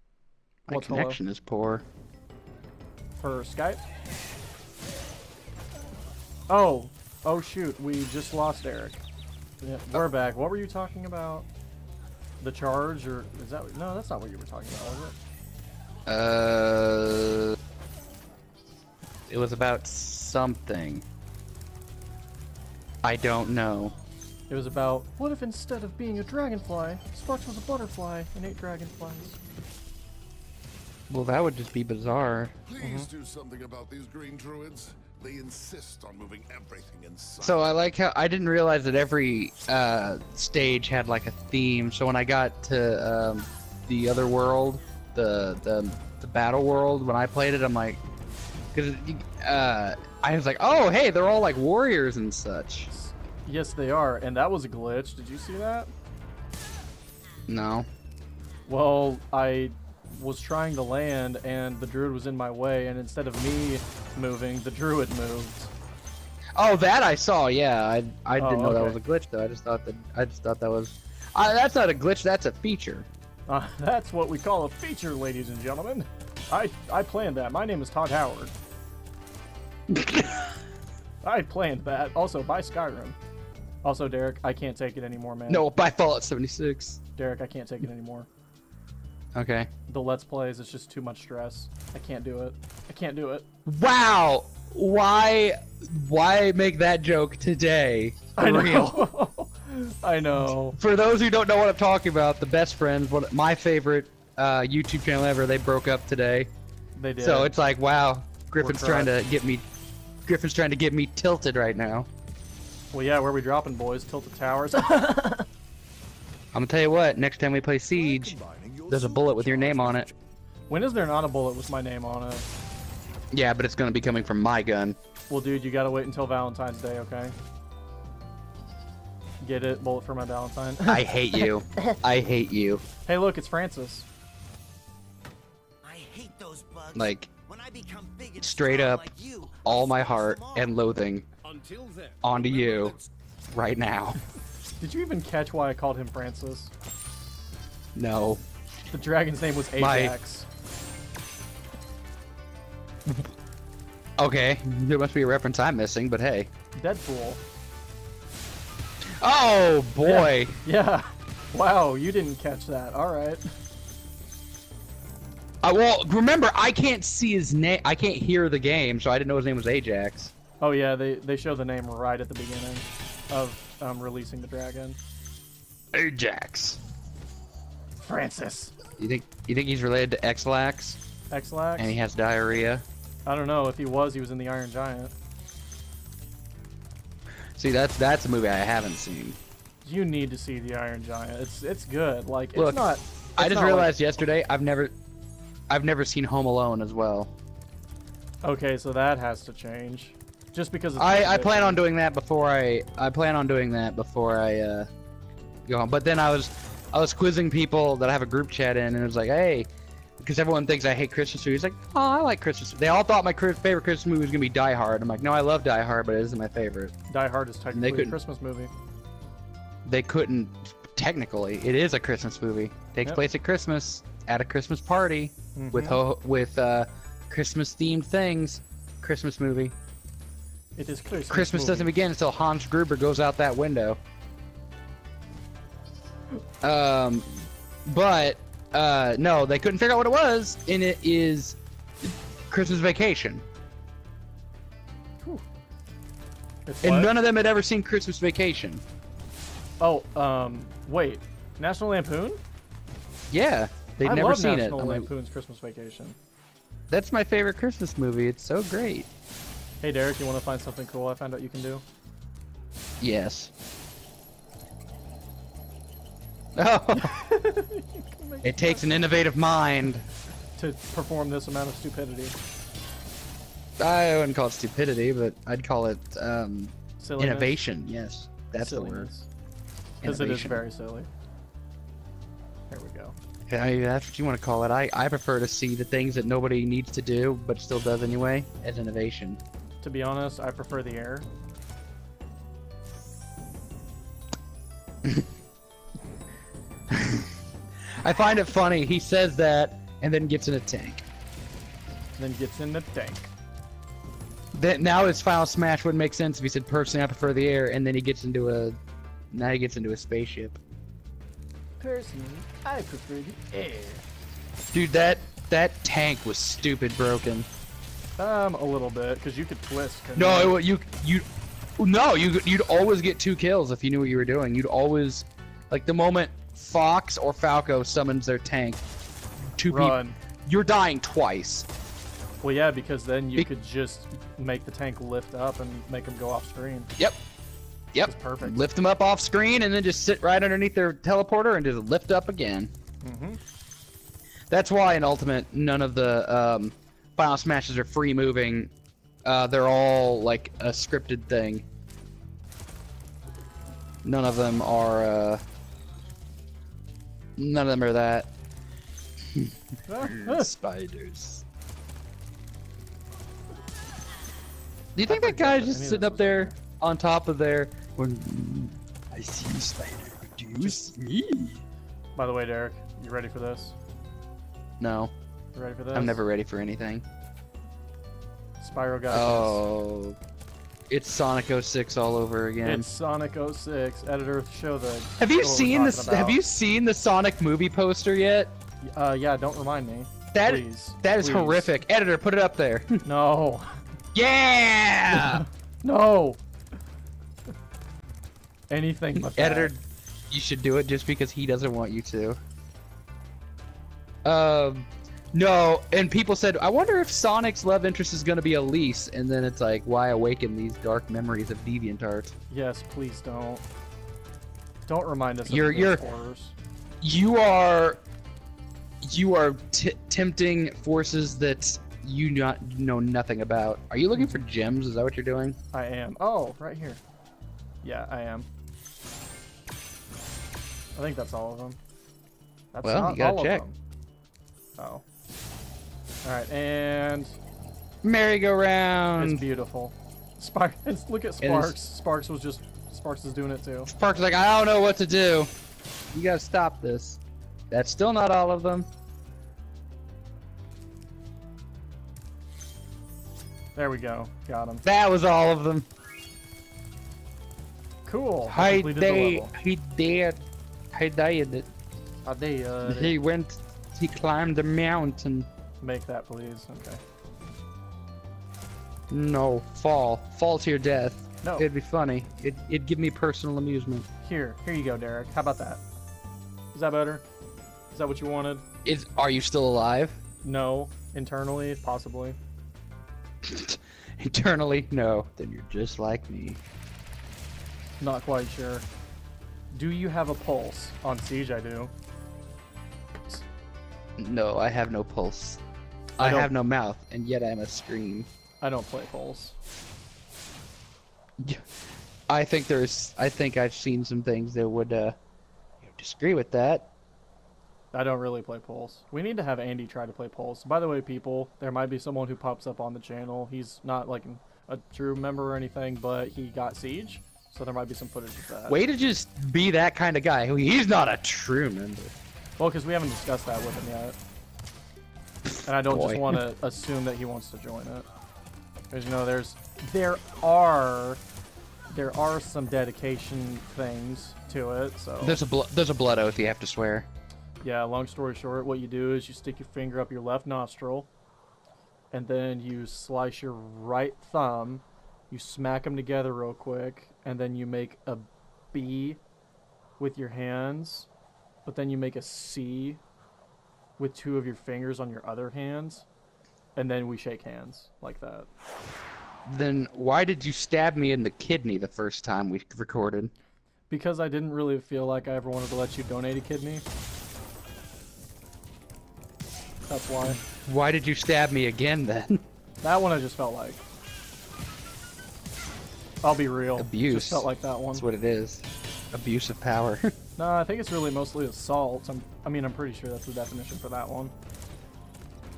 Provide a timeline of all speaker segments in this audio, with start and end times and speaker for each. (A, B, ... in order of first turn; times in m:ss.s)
0:00.7-0:01.8 A
0:00.7-0:01.2 B
0:03.2-0:03.8 B
0:06.5-0:09.0 B
0:09.6-0:11.5 B
0:12.4-0:15.2 B
0:16.1-0:17.6 A
0:19.3-0:21.0 A
0:23.0-0:23.9 A
0:24.5-0:29.4 B
0:31.1-0:32.5 A
0:32.7-0:37.8 C
0:32.8-0:33.1 B
0:37.4-0:48.0 A
0:48.7-0:52.9 A
0:52.9-0:55.9 B
0:57.5-0:57.9 A
0:58.7-1:05.7 B
1:06.6-1:13.1 A
1:08.4-1:09.0 B
1:13.5-1:18.5 B
1:19.9-1:20.5 A
1:21.2-1:23.2 B
1:23.8-1:25.6 B
1:25.5-1:27.0 A
1:27.2-1:28.3 B
1:29.3-1:29.7 A
1:29.9-1:33.4 B
1:33.6-1:39.0 A
1:38.4-1:40.8 B
1:40.7-1:46.5 A
1:47.0-1:47.5 B
1:47.2-1:49.6 A
1:48.6-1:49.1 B
1:50.2-1:52.1 A
1:52.9-1:55.4 B
1:56.5-1:58.4 A
1:57.9-2:00.2 C
1:58.9-2:00.1 A
2:00.7-2:02.5 B
2:03.3-2:05.0 A
2:05.3-2:07.3 B
2:09.4-2:11.4 B
2:10.8-2:12.8 A
2:13.0-2:14.1 B
2:15.8-2:20.8 D
2:16.9-2:17.3 A
2:18.4-2:19.1 A
2:19.6-2:21.2 A
2:21.5-2:23.0 C
2:22.2-2:23.0 A
2:23.5-2:24.2 A
2:24.8-2:26.7 B
2:27.9-2:28.4 A
2:28.9-2:30.5 B
2:29.8-2:30.1 A
2:34.2-2:36.5 A
2:36.8-2:37.4 B
2:39.2-2:40.6 A
2:40.0-2:43.4 B
2:45.6-2:50.3 A
2:50.6-2:55.0 B
2:55.9-2:56.8 A
2:58.0-2:58.7 B
2:59.0-3:01.0 A
3:01.3-3:02.0 B
3:01.8-3:02.8 A
3:03.2-3:05.1 B
3:07.6-3:09.4 A
3:09.8-3:14.0 B
3:12.6-3:12.8 A
3:13.4-3:14.9 A
3:15.7-3:17.3 A
3:18.4-3:21.8 B
3:21.0-3:24.9 A
3:25.7-3:29.7 A
3:30.2-3:36.9 A
3:37.1-3:38.7 B
3:37.7-3:38.2 A
3:39.8-3:49.7 A
3:45.6-3:46.0 B
3:50.8-3:51.9 B
3:51.3-3:54.0 A
3:56.6-4:03.4 A
4:06.6-4:07.1 B
4:06.8-4:08.8 A
4:09.8-4:12.4 B
4:13.3-4:15.1 A
4:14.0-4:16.2 B
4:16.9-4:19.1 A
4:19.8-4:21.8 B
4:23.0-4:23.5 A
4:26.6-4:27.1 A
4:27.0-4:28.9 B
4:28.4-4:30.0 A
4:30.6-4:32.4 B
4:33.8-4:39.1 A
4:37.0-4:37.6 B
4:38.5-4:39.3 B
4:40.0-4:40.6 A
4:40.0-4:41.1 B
4:42.7-4:43.2 B
4:43.5-4:49.4 A
4:49.8-4:51.3 B
4:56.9-4:57.3 A
4:58.0-5:01.0 A
5:02.2-5:03.3 B
5:04.5-5:08.8 A
5:09.3-5:10.6 A
5:11.8-5:14.0 B
5:14.7-5:17.4 A
5:18.2-5:20.6 B
5:20.2-5:21.2 A
5:21.8-5:28.8 A
5:29.6-5:31.7 A
5:29.7-5:30.2 B
5:32.4-5:36.9 B
5:37.9-5:42.7 A
5:38.0-5:38.6 B
5:43.0-5:43.4 B
5:44.5-5:48.7 A
5:49.2-5:51.6 A
5:54.0-5:55.4 A
5:57.4-5:58.3 A
5:59.9-6:00.5 B
6:00.0-6:01.4 A
6:05.0-6:11.6 A
6:05.0-6:06.6 B
6:12.2-6:13.8 B
6:14.8-6:15.1 A
6:15.5-6:16.2 B
6:15.9-6:17.0 A
6:18.6-6:19.6 B
6:19.1-6:20.2 A
6:20.9-6:22.9 A
6:22.6-6:26.4 B
6:25.2-6:28.5 A
6:28.8-6:31.8 B
6:30.3-6:33.0 A
6:33.0-6:33.8 B
6:34.1-6:35.4 A
6:35.1-6:36.4 B
6:38.7-6:39.7 B
6:39.3-6:42.4 A
6:44.2-6:52.3 A
6:52.5-6:53.6 B
6:54.9-6:56.5 B
6:55.4-6:56.0 A
6:57.0-6:58.0 A
6:59.0-7:05.6 A
7:04.1-7:04.5 B
7:05.7-7:07.0 B
7:07.8-7:08.5 B
7:11.0-7:11.8 B
7:12.7-7:13.8 B
7:12.8-7:13.6 A
7:14.8-7:15.0 B
7:16.2-7:17.4 B
7:18.0-7:19.4 A
7:19.2-7:23.9 B
7:21.4-7:21.7 A
7:23.9-7:25.5 A
7:26.1-7:27.2 A
7:27.7-7:28.9 A
7:33.7-7:34.8 B
7:34.8-7:35.8 A
7:38.0-7:39.5 B
7:38.5-7:41.7 A
7:42.2-7:43.1 B
7:42.8-7:45.5 A
7:45.8-7:47.0 B
7:49.1-7:54.0 A
7:51.4-7:51.7 B
7:54.2-7:55.8 B
7:56.7-7:57.2 B
7:57.9-7:58.6 B
7:58.8-8:00.2 A
8:00.4-8:02.4 B
8:03.4-8:06.6 A
8:08.0-8:08.9 B
8:09.7-8:11.9 B
8:14.2-8:15.6 A
8:16.2-8:18.3 A
8:16.2-8:16.5 B
8:18.6-8:19.6 B
8:21.4-8:21.6 A
8:22.3-8:25.2 A
8:25.8-8:26.9 A
8:27.9-8:38.8 B
8:38.7-8:42.1 A
8:42.6-8:44.2 B
8:45.6-8:48.0 B
8:45.8-8:46.4 A
8:48.9-8:51.2 B
8:51.9-8:55.4 B
8:55.2-8:57.1 A
8:57.6-9:01.1 B
9:02.1-9:09.2 B
9:10.0-9:11.1 B
9:11.6-9:13.0 B
9:14.0-9:16.0 B
9:16.8-9:18.5 B
9:19.4-9:23.3 A
9:23.9-9:26.8 B
9:29.9-9:30.4 B
9:30.2-9:32.4 A
9:32.8-9:33.8 B
9:36.2-9:38.0 B
9:36.8-9:40.1 A
9:40.4-9:44.3 B